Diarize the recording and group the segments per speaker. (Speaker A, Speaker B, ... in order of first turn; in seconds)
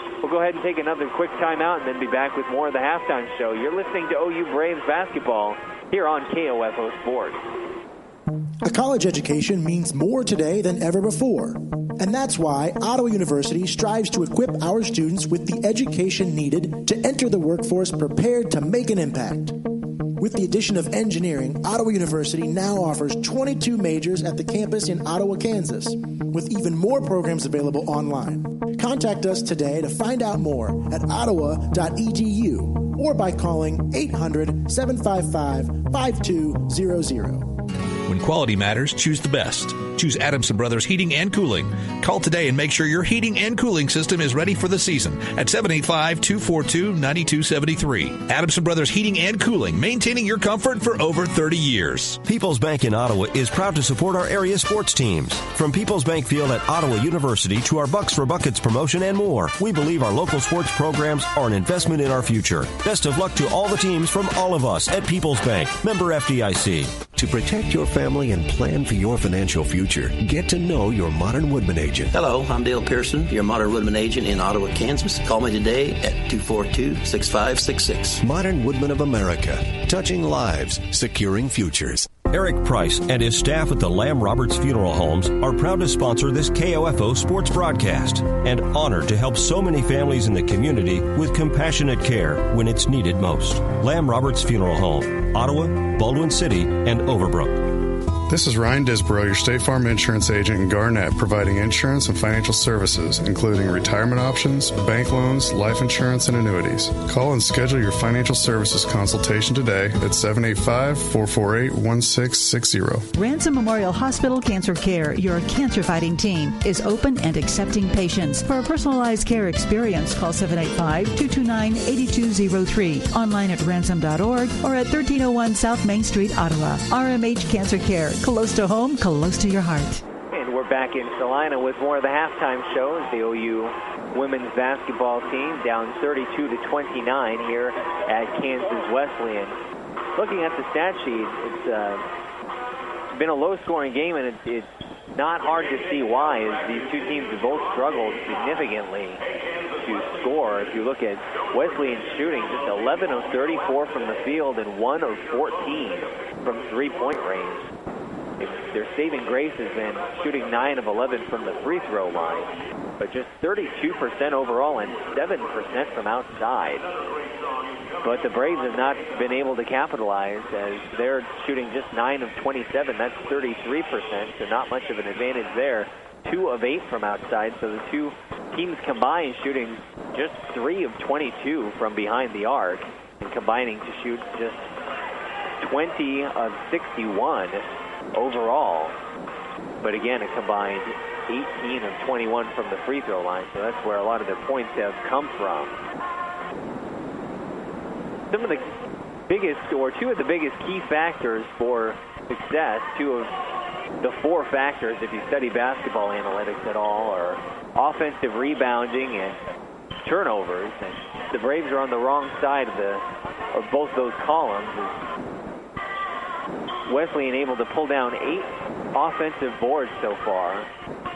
Speaker A: 0.2-7.4, 130.3-139.6, 140.2-142.0, 143.1-149.2, 149.8-157.7, 158.4-166.9, 168.0-184.7, 185.6-188.9, 189.8-195.7, 198.3-198.7, 199.3-203.3, 204.0-209.4, 210.0-215.0, 216.8-220.7
Speaker B: 8.6-19.6, 20.2-37.5
Speaker C: 38.1-52.2
Speaker D: 52.2-67.0, 82.3-97.7
Speaker E: 67.2-72.0, 78.3-79.5, 80.1-81.9
Speaker F: 72.1-78.2
Speaker G: 98.3-113.1
Speaker H: 113.1-130.0